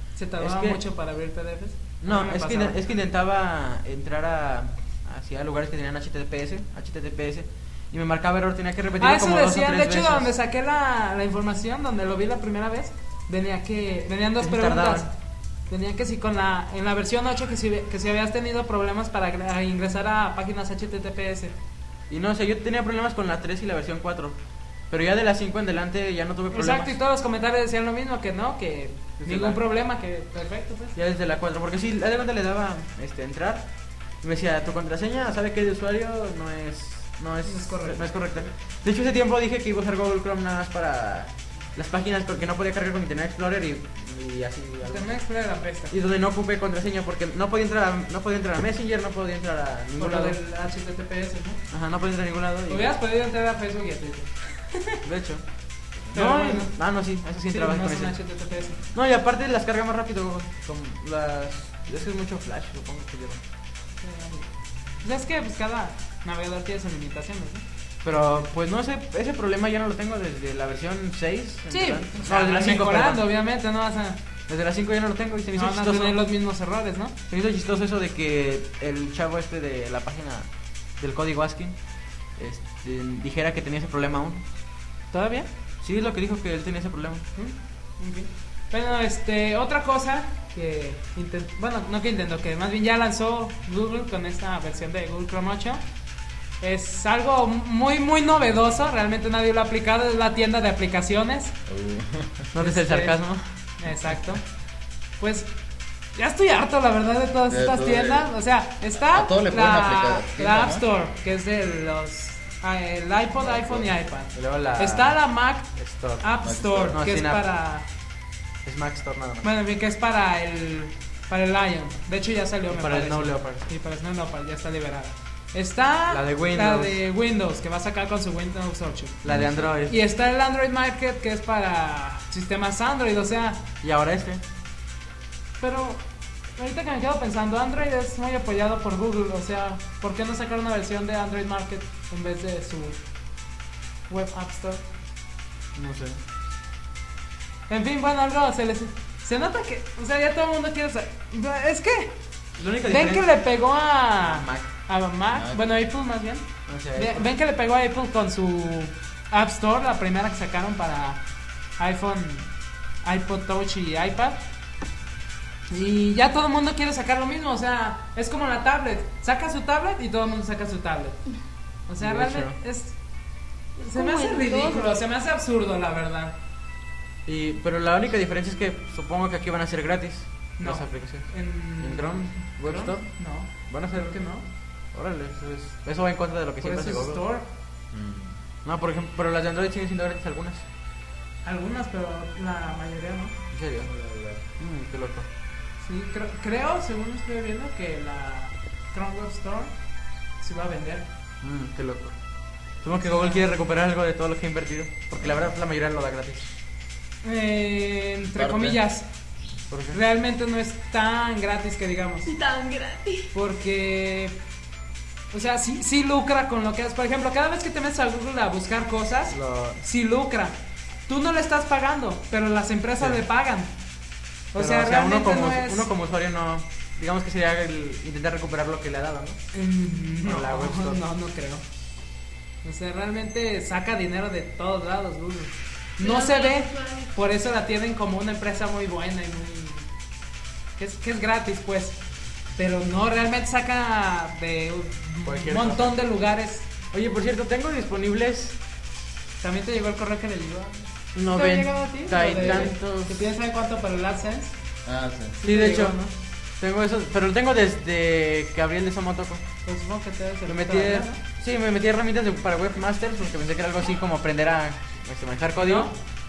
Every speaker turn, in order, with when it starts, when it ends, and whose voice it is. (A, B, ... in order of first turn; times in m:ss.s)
0:00.2-0:02.8 A
0:00.4-0:00.8 B
0:02.0-0:10.3 B
0:09.0-0:15.1 A
0:14.4-0:15.1 B
0:15.7-0:21.5 A
0:22.1-0:24.4 B
0:24.9-0:27.0 B
0:26.5-0:31.0 A
0:29.2-0:29.6 B
0:31.0-0:33.7 B
0:34.2-0:45.1 B
0:37.5-0:38.0 A
0:44.9-0:45.9 A
0:45.9-0:50.4 B
0:50.0-0:51.6 A
0:51.7-0:52.9 B
0:52.7-0:55.0 A
0:55.0-0:55.4 B
0:56.1-0:58.2 B
0:56.1-0:56.8 A
0:57.5-0:58.8 A
0:58.9-1:03.4 B
1:04.0-1:04.5 A
1:05.0-1:07.6 A
1:08.0-1:13.2 B
1:11.7-1:14.2 A
1:14.5-1:16.2 B
1:15.6-1:17.2 A
1:17.3-1:21.8 B
1:22.4-1:24.4 B
1:25.1-1:25.5 A
1:25.8-1:27.3 B
1:27.4-1:35.8 A
1:36.6-1:41.6 A
1:41.7-1:42.5 C
1:42.5-1:43.4 B
1:42.6-1:43.2 A
1:43.8-1:44.4 A
1:45.2-1:45.5 A
1:46.2-1:57.9 A
1:47.5-1:48.3 C
1:48.9-1:50.8 C
1:53.4-1:53.9 C
1:54.3-1:55.2 B
1:55.8-1:56.2 B
1:56.4-1:57.0 C
1:56.9-1:57.4 B
1:58.6-1:59.5 B
1:59.4-2:09.2 A
2:02.7-2:03.6 B
2:06.1-2:07.0 B
2:09.2-2:10.0 B
2:09.2-2:09.7 C
2:09.8-2:13.6 A
2:13.8-2:14.4 B
2:15.6-2:16.0 A
2:16.6-2:23.0 A
2:24.1-2:24.8 A
2:25.8-2:26.2 B
2:27.7-2:32.2 A
2:32.6-2:33.3 B
2:32.8-2:41.2 A
2:34.2-2:34.7 B
2:35.3-2:35.6 C
2:36.7-2:37.3 B
2:41.8-2:42.5 A
2:43.0-2:44.4 A
2:45.7-2:51.2 A
2:51.9-2:53.0 A
2:52.0-2:52.6 B
2:53.8-2:54.9 D
2:53.8-2:56.4 A
2:57.2-3:04.2 B
3:00.6-3:04.4 A
3:04.9-3:07.2 B
3:06.6-3:07.4 A
3:07.9-3:08.4 C
3:08.6-3:10.7 B
3:11.4-3:13.3 A
3:13.5-3:13.9 B
3:13.8-3:14.4 C
3:14.6-3:15.3 B
3:15.8-3:19.7 A
3:20.4-3:21.1 A
3:21.4-3:22.2 B
3:22.8-3:26.5 B
3:23.0-3:23.4 A
3:25.2-3:25.4 C
3:27.2-3:29.1 A
3:28.4-3:28.8 C
3:29.7-3:30.0 B
3:29.9-3:32.3 A
3:32.3-3:33.3 D
3:33.3-3:34.4 A
3:35.3-3:43.7 A
3:39.3-3:39.8 B
3:44.5-3:45.9 A
3:44.6-3:49.4 B
3:49.5-3:51.6 A
3:50.2-3:51.0 B
3:52.6-3:59.9 A
3:56.0-3:57.1 D
4:00.8-4:02.0 A
4:02.6-4:06.7 A
4:05.2-4:06.0 B
4:06.9-4:08.6 B
4:09.4-4:14.5 A
4:11.2-4:13.2 B
4:14.8-4:15.4 C
4:15.4-4:16.1 A
4:15.4-4:16.0 B
4:16.6-4:19.4 B
4:19.7-4:21.2 A
4:20.5-4:25.9 B
4:25.6-4:25.9 A